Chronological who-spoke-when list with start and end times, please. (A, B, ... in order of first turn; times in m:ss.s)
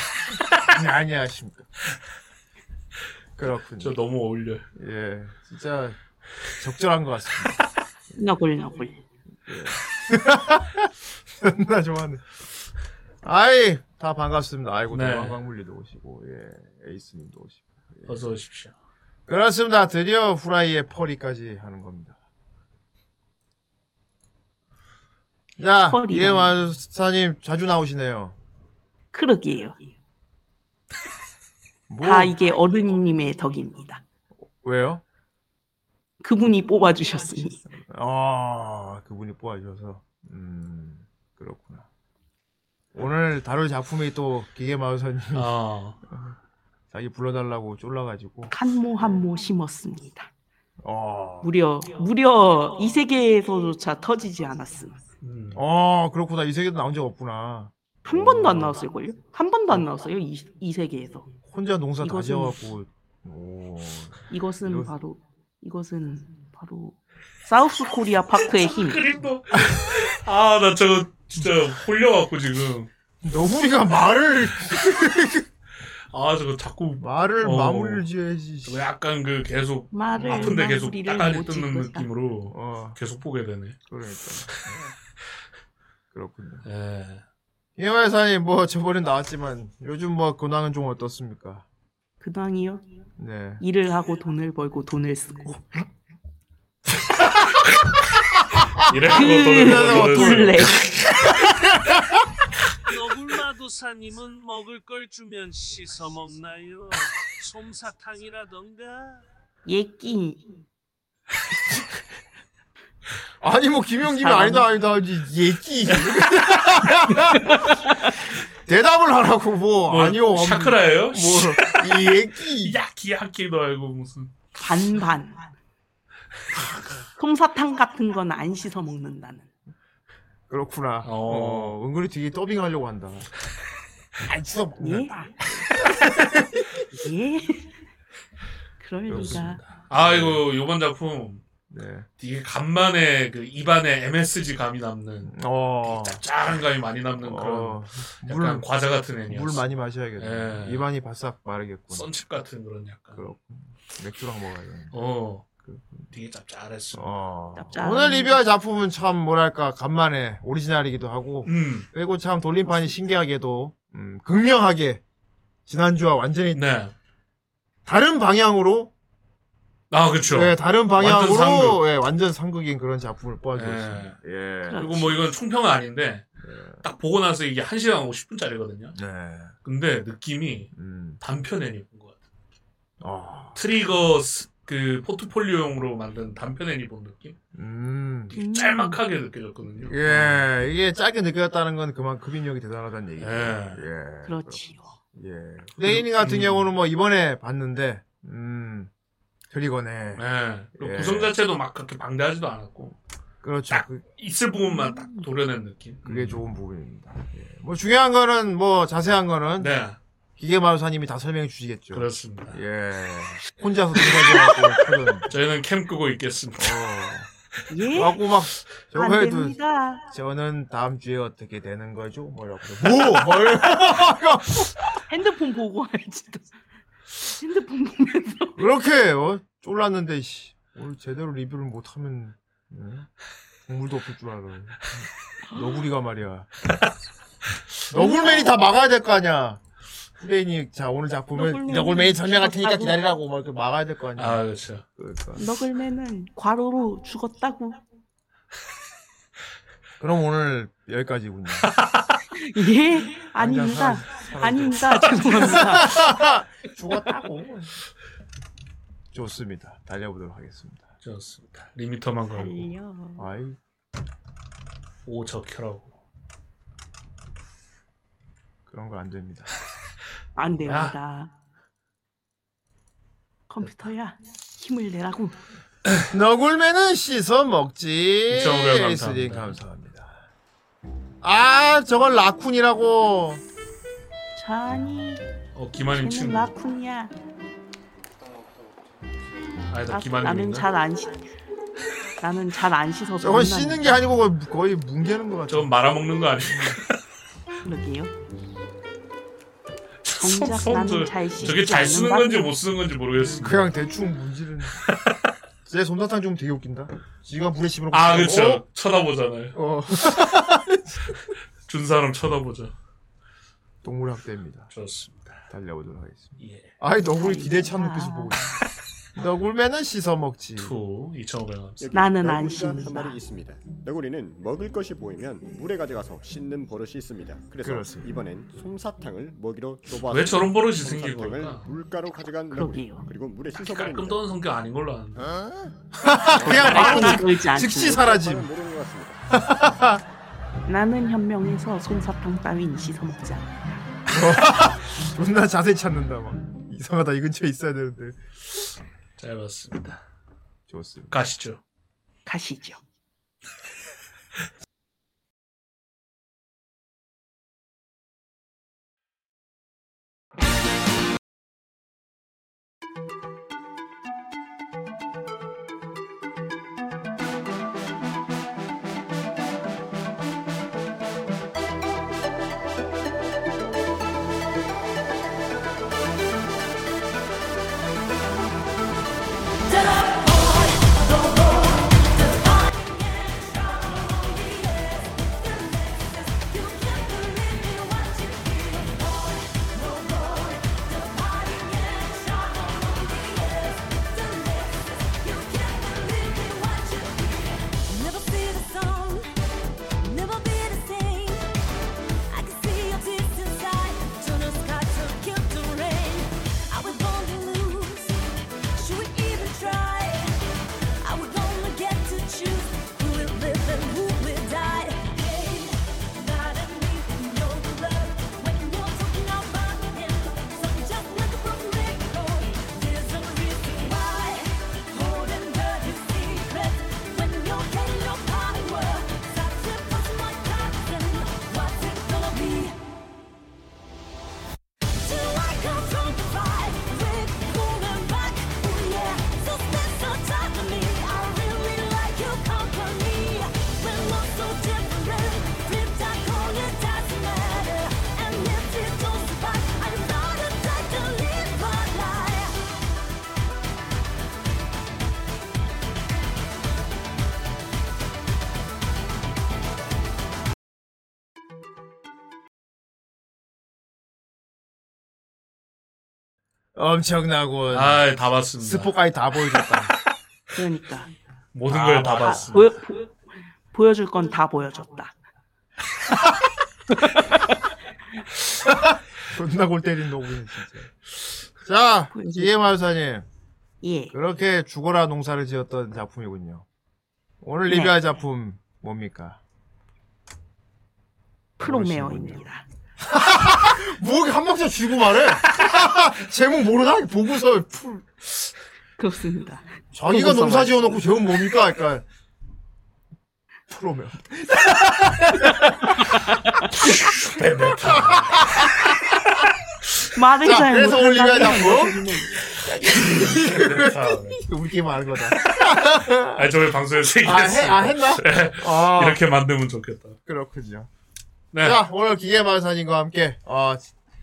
0:00.6-0:01.7 A
0:03.4-0:04.0 A
0:03.8-0:04.6 B
0:04.8-0:06.0 A
0:06.6-0:07.5 A
0:08.2-0:09.0 C
0:09.5-0:12.2 A
0:13.2-0:18.1 A
0:14.9-0:15.4 B
0:18.1-0:18.7 B
0:19.3-0:22.2 A
0:25.6-0:28.4 A
0:25.9-0:26.5 C
0:29.1-0:29.8 C
0:31.9-0:32.3 A
0:32.0-0:34.0 C
0:34.6-0:35.0 A
0:36.2-0:37.6 C
0:37.7-0:41.9 A
0:42.9-0:45.5 A
0:45.3-0:46.0 B
0:46.1-0:46.4 A
0:46.9-0:49.2 A
0:48.5-0:50.3 C
0:50.8-0:51.5 A
0:51.4-0:55.0 C
0:55.2-0:55.6 B
0:55.5-0:58.8 A
0:58.0-1:01.3 C
1:01.5-1:04.9 A
1:02.0-1:02.6 C
1:04.3-1:09.0 C
1:08.5-1:12.9 B
1:13.2-1:15.5 A
1:16.1-1:18.1 B
1:17.0-1:18.8 A
1:18.6-1:23.8 B
1:19.9-1:22.1 C
1:20.2-1:20.5 A
1:22.5-1:23.0 A
1:23.9-1:24.8 A
1:26.1-1:26.6 A
1:26.6-1:27.2 B
1:27.8-1:31.6 A
1:32.2-1:32.8 C
1:33.2-1:33.6 A
1:33.6-1:35.6 C
1:38.8-1:41.4 B
1:39.0-1:40.7 A
1:39.1-1:40.8 C
1:42.9-1:49.2 D
1:49.6-1:50.4 C
1:53.4-1:57.6 A
1:54.1-1:54.7 C
1:58.7-2:02.8 A
1:59.9-2:04.3 B
2:04.6-2:05.4 C
2:07.2-2:09.5 C
2:10.5-2:13.3 A
2:11.0-2:11.8 B
2:14.2-2:16.6 A
2:14.8-2:15.3 C
2:16.9-2:17.7 C
2:18.8-2:19.6 C
2:19.1-2:20.4 A
2:19.1-2:21.4 B
2:21.7-2:22.1 A
2:22.2-2:29.7 B
2:25.2-2:26.2 A
2:27.2-2:28.7 A
2:29.3-2:32.1 A
2:30.2-2:30.9 B
2:31.9-2:33.3 B
2:33.1-2:35.0 A
2:34.9-2:35.5 B
2:35.6-2:36.1 A
2:36.1-2:37.1 B
2:36.9-2:45.0 A
2:37.6-2:38.4 C
2:41.4-2:41.9 B
2:45.7-2:46.6 A
2:46.5-2:46.9 B
2:47.9-2:48.9 A
2:49.9-2:51.8 B
2:50.3-2:55.2 A
2:53.6-2:54.2 B
2:54.7-2:55.2 C
2:54.8-2:56.3 B
2:56.4-2:56.8 A
2:56.8-2:59.0 B
2:59.0-2:59.5 A
2:59.6-3:02.2 B
3:00.7-3:01.2 A
3:03.0-3:03.6 A
3:03.6-3:07.4 B
3:07.6-3:08.3 A
3:08.3-3:10.4 B
3:08.4-3:09.0 C
3:09.9-3:14.6 A
3:13.2-3:13.9 B
3:14.2-3:14.9 C
3:15.1-3:18.9 A
3:15.8-3:16.7 B
3:19.5-3:20.2 A
3:20.2-3:23.0 B
3:20.8-3:21.3 A
3:23.4-3:24.0 A
3:23.7-3:26.4 B
3:24.6-3:25.2 C
3:26.0-3:29.7 A
3:29.6-3:30.0 B
3:30.4-3:35.3 A
3:31.9-3:32.6 B
3:34.0-3:34.6 B
3:35.3-3:36.8 B
3:36.6-3:37.3 A
3:37.7-3:38.2 C
3:37.9-3:39.6 A
3:38.9-3:40.0 C
3:40.1-3:44.8 A
3:45.1-3:46.5 C
3:47.2-3:48.6 C
3:48.6-3:53.1 A
3:53.7-3:56.5 A
3:55.5-3:55.8 C
3:57.9-3:59.6 A
3:57.9-3:58.5 C
4:00.2-4:04.4 A
4:01.4-4:03.0 C
4:04.2-4:04.8 B
4:05.0-4:05.4 A
4:05.4-4:07.8 C
4:10.0-4:11.7 A
4:12.4-4:16.0 C
4:13.3-4:17.8 A
4:19.1-4:20.9 A
4:21.0-4:22.7 B
4:22.3-4:23.2 C
4:23.2-4:23.6 A
4:25.0-4:26.0 B
4:28.7-4:29.5 A
4:30.4-4:31.3 C
4:30.7-4:30.9 B
4:33.5-4:35.4 C
4:36.1-4:40.3 A
4:38.3-4:39.6 B
4:41.2-4:43.4 A
4:44.4-4:45.2 C
4:45.6-4:46.5 B
4:45.9-4:47.1 C
4:49.7-4:50.7 B
4:49.9-4:51.2 C
4:52.2-4:54.0 C
4:53.2-4:55.7 A
4:55.5-4:56.9 B
4:56.4-4:56.8 A
4:57.6-4:58.1 C
5:00.0-5:03.7 B
5:00.2-5:02.5 C
5:03.2-5:04.8 A
5:05.7-5:08.6 A
5:07.9-5:09.6 B
5:09.6-5:11.1 A
5:11.7-5:12.7 B
5:13.8-5:14.7 A
5:14.7-5:15.4 B
5:15.5-5:18.5 A
5:16.4-5:16.7 B
5:17.1-5:18.5 C
5:19.2-5:20.7 A
5:20.6-5:21.9 B
5:21.8-5:34.3 E
5:21.9-5:23.2 C
5:27.6-5:28.1 A
5:30.1-5:31.7 B
5:32.5-5:33.1 C
5:33.6-5:35.2 B
5:36.0-5:38.5 A
5:36.3-5:36.8 E
5:36.4-5:38.0 C
5:36.5-5:37.2 B
5:37.7-5:39.2 E
5:39.3-5:40.0 A
5:40.7-5:43.6 C
5:44.1-5:48.2 A
5:49.2-5:50.0 B
5:50.7-5:51.1 A
5:51.1-5:51.6 B
5:52.3-5:52.8 C
6:19.7-6:39.3 F
6:40.0-6:41.4 F
6:42.3-6:48.2 F
6:48.8-6:50.3 F
6:51.0-7:12.8 F
7:14.9-7:32.6 F
7:46.8-7:49.9 A
7:47.7-7:48.9 B
7:50.5-7:51.1 C
7:51.5-7:52.8 B
7:51.7-7:52.5 A
7:52.2-7:53.2 C
7:53.7-7:55.1 C
7:58.6-8:00.9 A
8:01.6-8:03.3 A
8:02.1-8:02.5 C
8:03.8-8:04.2 C
8:04.1-8:06.6 A
8:07.4-8:09.4 A
8:07.7-8:08.0 C
8:11.6-8:12.6 C
8:11.6-8:12.4 A
8:13.0-8:18.1 A
8:19.0-8:21.0 C
8:19.9-8:22.0 A
8:23.7-8:26.0 A
8:26.9-8:28.7 B
8:27.7-8:28.9 A
8:30.2-8:32.4 C
8:30.4-8:36.5 A
8:33.2-8:34.4 B
8:35.4-8:40.2 B
8:37.2-8:39.2 A
8:40.3-8:40.9 A
8:41.5-8:41.8 B
8:41.6-8:43.9 A